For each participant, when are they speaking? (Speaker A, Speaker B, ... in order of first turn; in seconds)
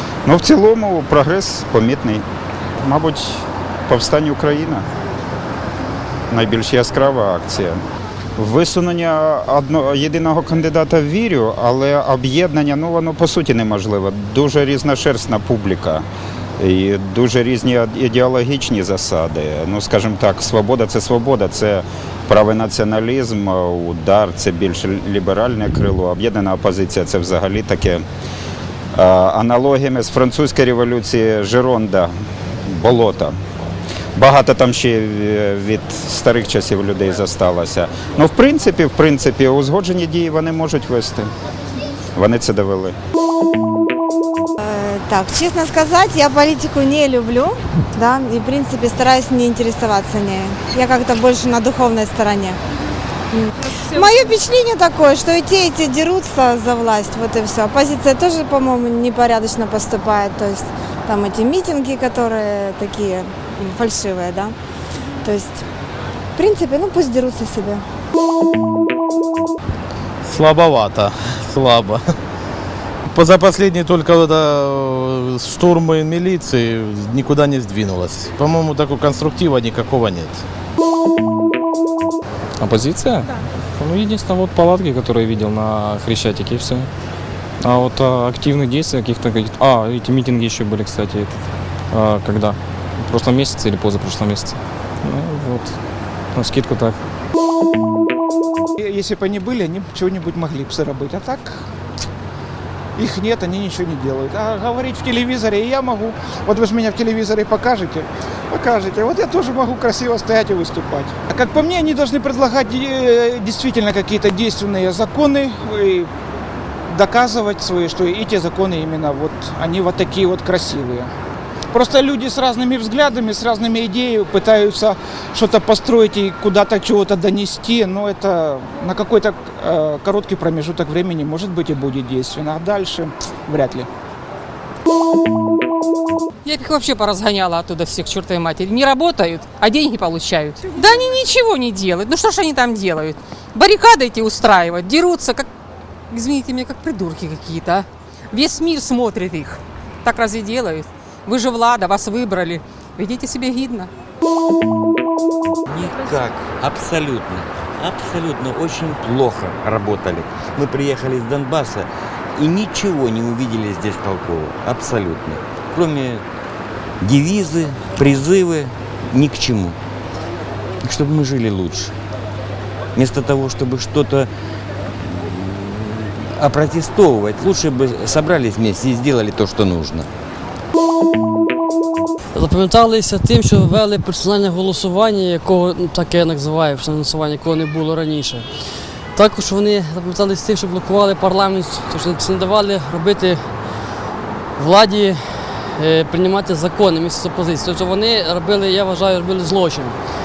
Speaker A: 0.2-2.2, 2.8-4.8, 6.3-7.8, 8.4-16.0, 16.6-28.0, 28.9-32.1, 32.7-33.3, 34.1-41.3, 42.1-43.0
Speaker B: 44.6-52.6, 53.3-64.5, 65.2-65.6, 66.3-67.8
Speaker C: 53.7-54.4, 136.4-145.5, 146.1-153.9
Speaker D: 70.2-72.2, 73.0-80.4
Speaker E: 82.6-86.9, 87.6-91.3, 91.9-95.8, 96.3-97.0
Speaker F: 98.8-101.6, 103.0-116.1, 116.9-121.1, 121.7-133.9
Speaker G: 155.7-166.2, 167.0-169.8, 170.8-171.9, 172.9-174.3, 175.0-180.1
Speaker H: 182.3-188.5, 189.1-193.4, 194.6-199.9